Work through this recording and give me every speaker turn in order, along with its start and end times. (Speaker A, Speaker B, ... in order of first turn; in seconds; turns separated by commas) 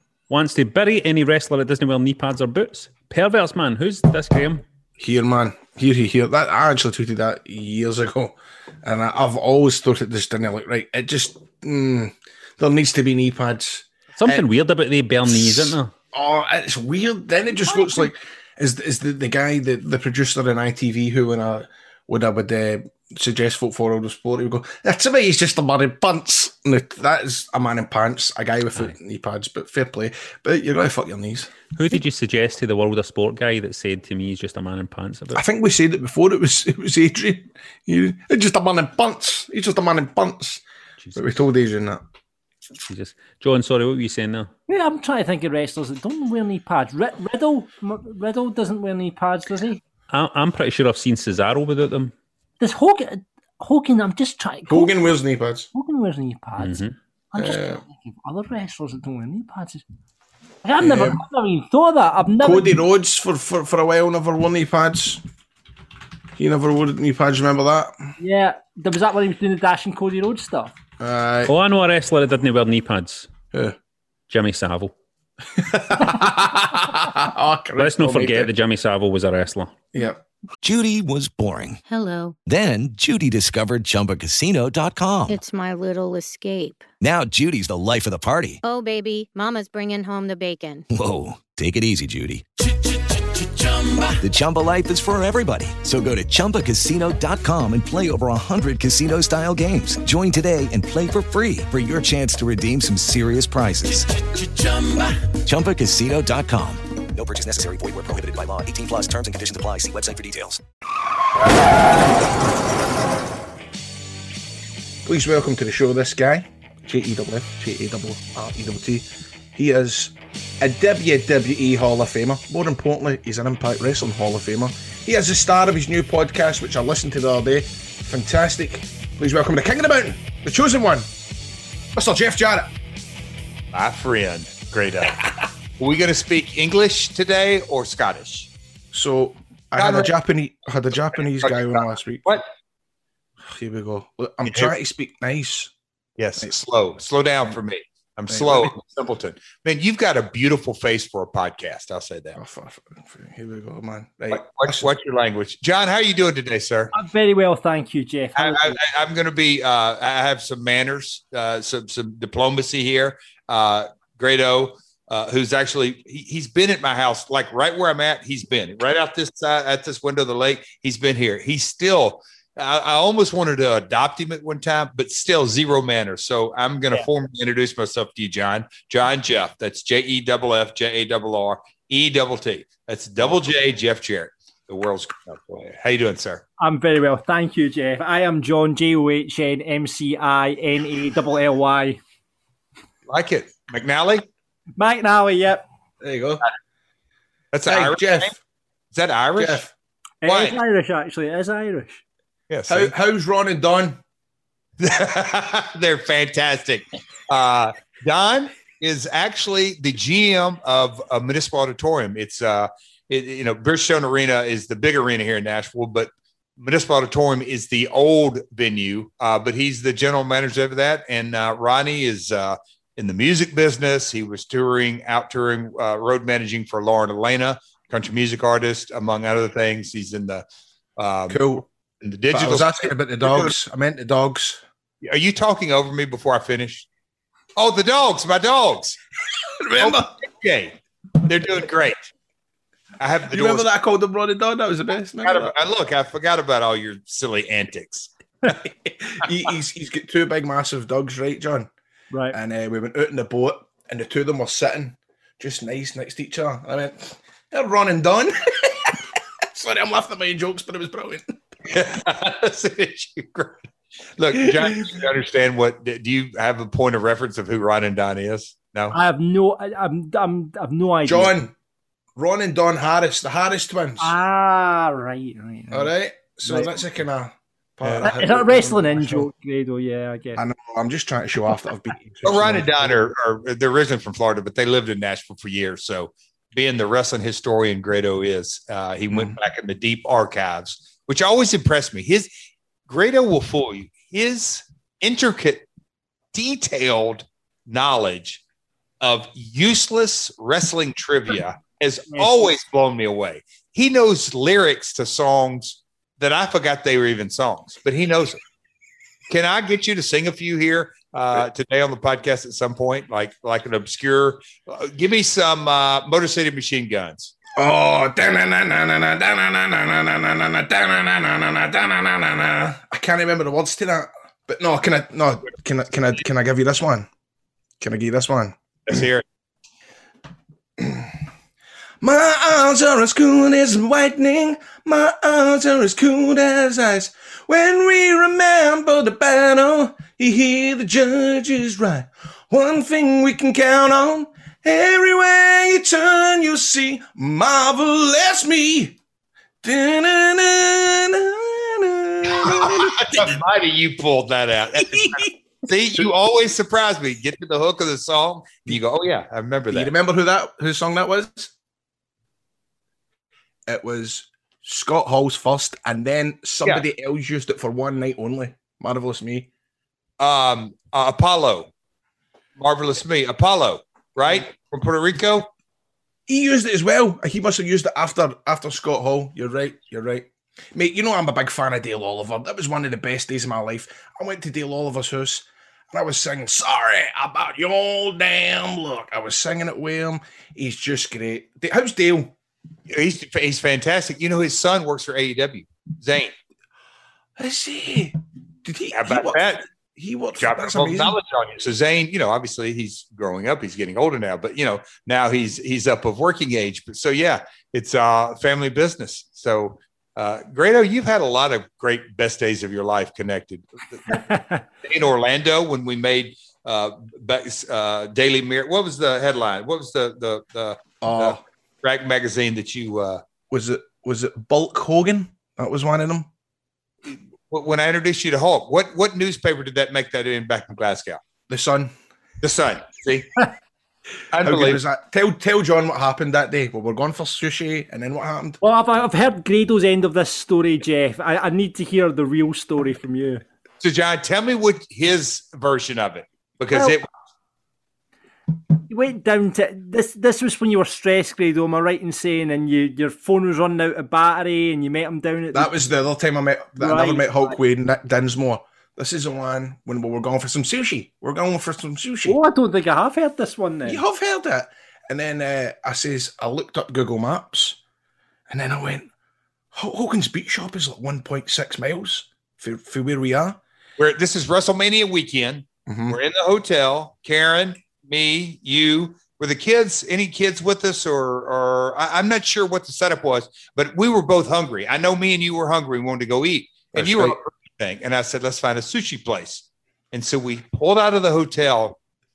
Speaker A: 0.3-4.7, Speaker B: 5.0-14.4, Speaker A: 14.2-15.9, Speaker B: 15.3-31.5, Speaker C: 17.6-18.0, Speaker A: 31.8-35.4, Speaker B: 35.3-40.6, Speaker B: 41.1-42.0, Speaker A: 42.8-44.5, Speaker C: 44.7-49.8, Speaker A: 50.1-52.1, Speaker C: 52.6-54.9, Speaker B: 54.7-55.7, Speaker C: 55.7-56.8, Speaker A: 56.6-57.0, Speaker C: 57.3-59.9, Speaker B: 57.4-57.8, Speaker C: 60.6-62.8, Speaker B: 60.8-61.2, Speaker B: 62.4-65.2, Speaker B: 66.4-68.1, Speaker C: 68.2-70.7, Speaker B: 71.0-71.5, Speaker A: 71.5-73.3, Speaker A: 74.3-75.0, Speaker B: 75.6-78.5, Speaker A: 77.8-79.8, Speaker B: 79.9-80.2, Speaker D: 80.6-81.8, Speaker E: 81.9-82.3, Speaker D: 82.5-85.4, Speaker E: 85.3-86.8, Speaker D: 87.0-88.6, Speaker E: 88.6-90.8, Speaker D: 90.9-92.5, Speaker D: 94.2-104.3, Speaker D: 105.4-110.6, Speaker B: 115.0-131.1, Speaker B: 131.9-132.7, Speaker F: 133.7-135.2, Speaker F: 135.8-138.5, Speaker B: 138.9-142.4, Speaker F: 139.8-140.1, Speaker F: 141.4-142.4, Speaker B: 143.4-145.7, Speaker F: 144.5-144.7, Speaker F: 146.2-152.4, Speaker B: 148.3-148.8, Speaker B: 152.3-154.9, Speaker F: 154.3-156.9, Speaker C: 156.9-158.8, Speaker F: 158.4-186.4, Speaker C: 186.6-192.0, Speaker F: 193.1-194.2, Speaker C: 194.8-195.6, Speaker B: 196.0-196.4, Speaker F: 197.5-198.3, Speaker B: 197.7-198.4, Speaker F: 198.9-199.7, Speaker B: 199.4-199.7, Speaker C: 200.2-202.0, Speaker F: 200.2-200.6, Speaker F: 202.5-202.9, Speaker B: 202.7-204.0, Speaker F: 204.8-230.4, Speaker F: 231.0-231.5, Speaker B: 231.3-231.7, Speaker F: 232.0-233.5, Speaker B: 232.3-234.6, Speaker F: 235.0-236.9, Speaker F: 237.6-239.0, Speaker B: 239.6-240.1, Speaker F: 239.8-242.1, Speaker F: 243.0-243.7, Speaker B: 243.3-245.6, Speaker F: 245.2-248.1, Speaker B: 248.6-251.7, Speaker B: 252.3-261.3, Speaker F: 261.7-269.0, Speaker C: 268.9-271.4, Speaker B: 271.1-271.5, Speaker B: 272.2-274.1, Speaker C: 274.0-275.9, Speaker B: 275.7-279.3, Speaker C: 276.4-276.7, Speaker C: 278.0-280.4, Speaker B: 280.4-283.1, Speaker F: 282.2-292.3, Speaker B: 289.1-289.4, Speaker F: 292.9-295.7, Speaker F: 296.3-298.4, Speaker F: 299.0-308.4, Speaker F: 309.3-317.4, Speaker B: 317.6-327.1, Speaker B: 327.8-329.0, Speaker F: 328.9-329.2, Speaker B: 330.8-331.1, Speaker B: 332.0-349.0, Speaker B: 349.6-353.4, Speaker F: 352.3-359.9, Speaker B: 354.8-355.3, Speaker B: 359.7-361.5, Speaker B: 363.7-369.5, Speaker F: 370.2-371.7, Speaker F: 372.6-375.5, Speaker B: 376.3-392.3, Speaker F: 392.9-396.3, Speaker B: 397.4-401.2, Speaker F: 398.9-399.6, Speaker F: 400.4-414.2, Speaker C: 414.1-414.6, Speaker F: 414.8-423.2, Speaker B: 421.0-421.4, Speaker B: 423.5-426.3, Speaker F: 427.1-431.2, Speaker B: 431.5-431.9, Speaker F: 432.4-433.3, Speaker F: 434.3-434.8, Speaker B: 434.4-438.6, Speaker C: 438.6-443.4, Speaker F: 443.8-447.1, Speaker C: 448.9-455.7, Speaker B: 455.5-462.4, Speaker C: 456.8-457.6, Speaker C: 462.3-464.0, Speaker B: 463.9-467.8, Speaker B: 468.5-469.1, Speaker B: 469.7-473.6, Speaker F: 474.0-492.0, Speaker B: 475.9-476.2, Speaker B: 486.9-487.4